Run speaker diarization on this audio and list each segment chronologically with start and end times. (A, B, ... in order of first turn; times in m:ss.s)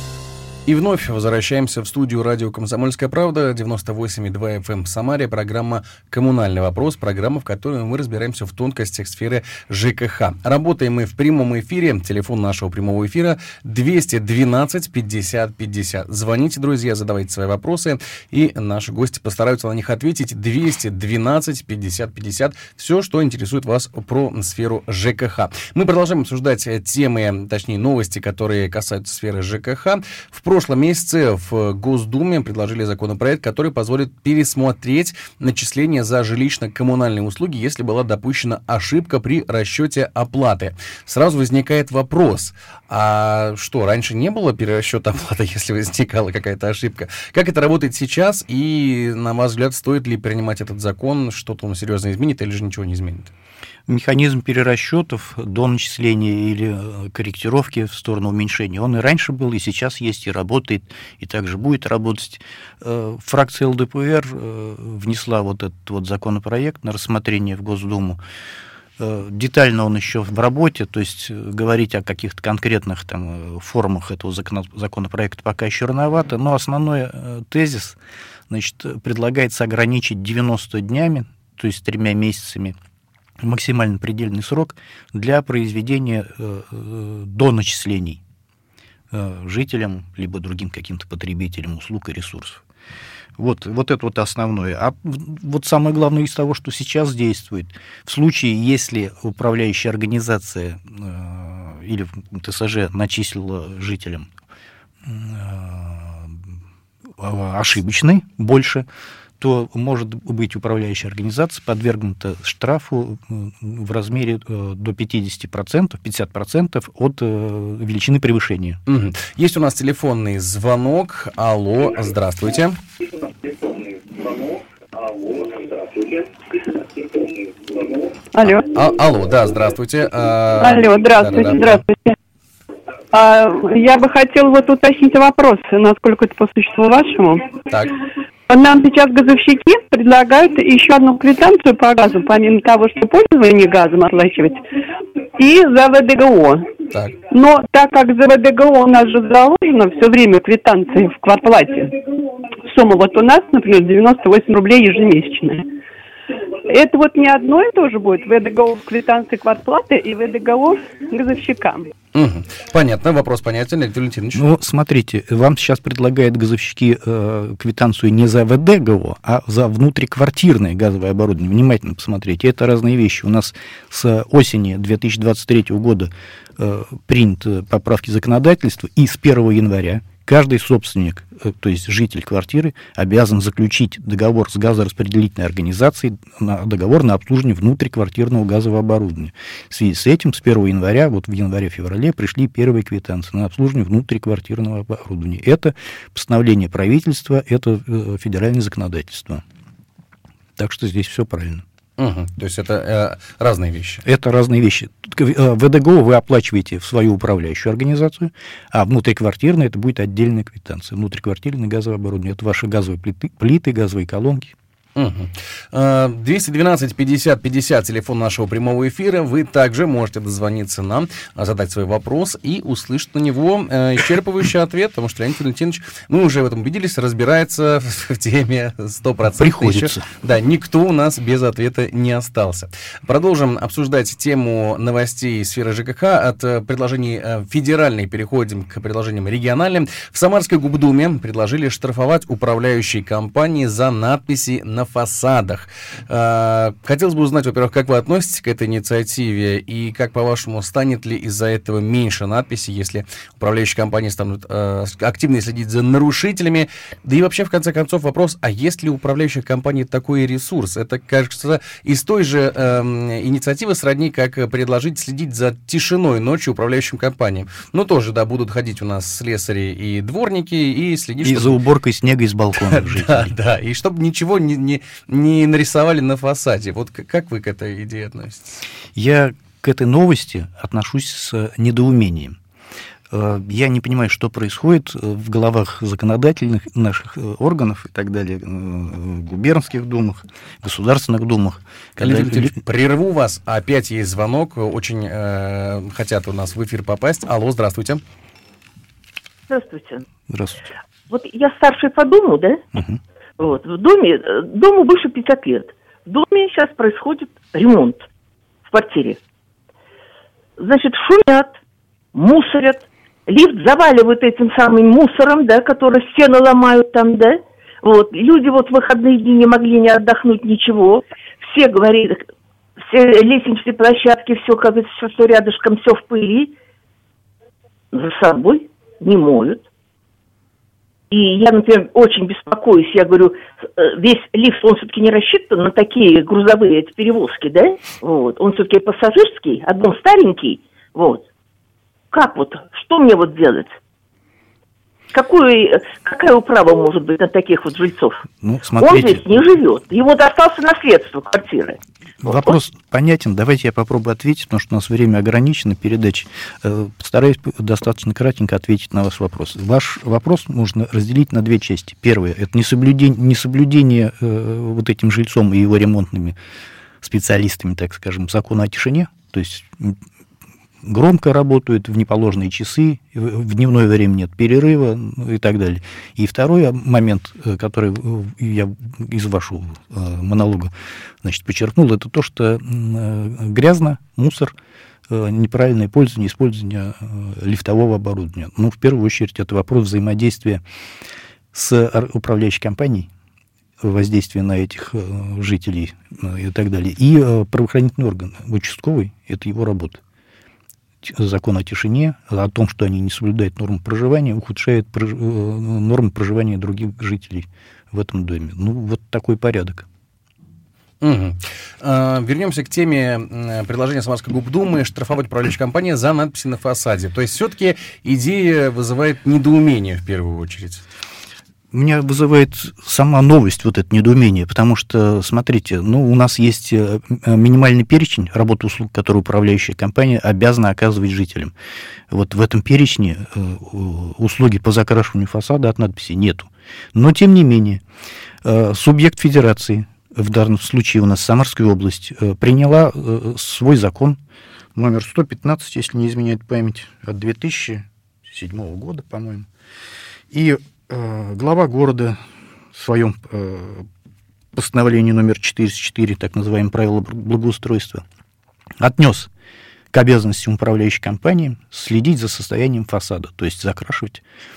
0:00.7-0:53.3 A
0:53.9-1:08.2 B
1:09.0-1:18.0 B
1:18.5-1:22.8 B
1:23.4-1:28.2 B
1:29.1-1:32.6 B
1:33.4-1:44.3 B
1:45.0-1:46.4 B
1:47.2-1:48.9 B
1:49.4-1:58.8 B
1:58.9-2:02.8 A
2:08.3-2:08.7 C
2:08.4-2:11.8 A
2:10.6-2:12.2 C
2:13.1-2:17.6 C
2:18.5-2:24.6 C
2:25.4-2:26.7 C
2:26.9-2:27.2 A
2:27.3-2:32.0 C
2:32.7-2:35.7 C
2:36.6-2:41.9 C
2:42.1-2:44.4 A
2:44.4-3:19.4 B
3:20.6-3:21.6 B
3:22.0-3:24.0 A
3:24.0-3:34.5 B
3:35.0-4:31.6 A
3:49.4-3:50.1 B
4:31.2-4:33.3 B
4:32.6-4:38.6 A
4:39.0-4:42.4 B
4:43.1-4:52.6 B
4:52.0-4:58.0 A
4:59.5-5:00.0 D
5:00.3-5:00.6 B
5:01.1-5:02.6 D
5:02.8-5:03.0 B
5:03.4-5:08.1 D
5:08.7-5:09.2 D
5:10.6-5:11.6 D
5:12.1-5:22.2 D
5:22.8-5:26.5 D
5:27.9-5:29.6 D
5:31.1-5:41.3 D
5:42.1-5:43.8 D
5:45.1-5:48.2 D
5:48.4-5:49.6 B
5:48.8-5:52.6 D
5:52.2-6:06.4 B
6:07.0-6:10.0 B
6:10.8-6:20.7 B
6:21.2-6:24.6 B
6:25.1-6:30.6 B
6:31.5-6:33.1 B
6:33.8-6:40.0 B
6:41.0-6:49.9 B
6:51.0-7:00.8 A
7:01.7-7:11.5 B
7:12.1-7:17.8 B
7:18.4-7:24.2 B
7:24.8-7:29.5 B
7:30.3-7:32.2 B
7:32.7-7:33.9 B
7:34.5-7:38.0 B
7:38.8-7:39.3 B
7:39.9-7:44.2 B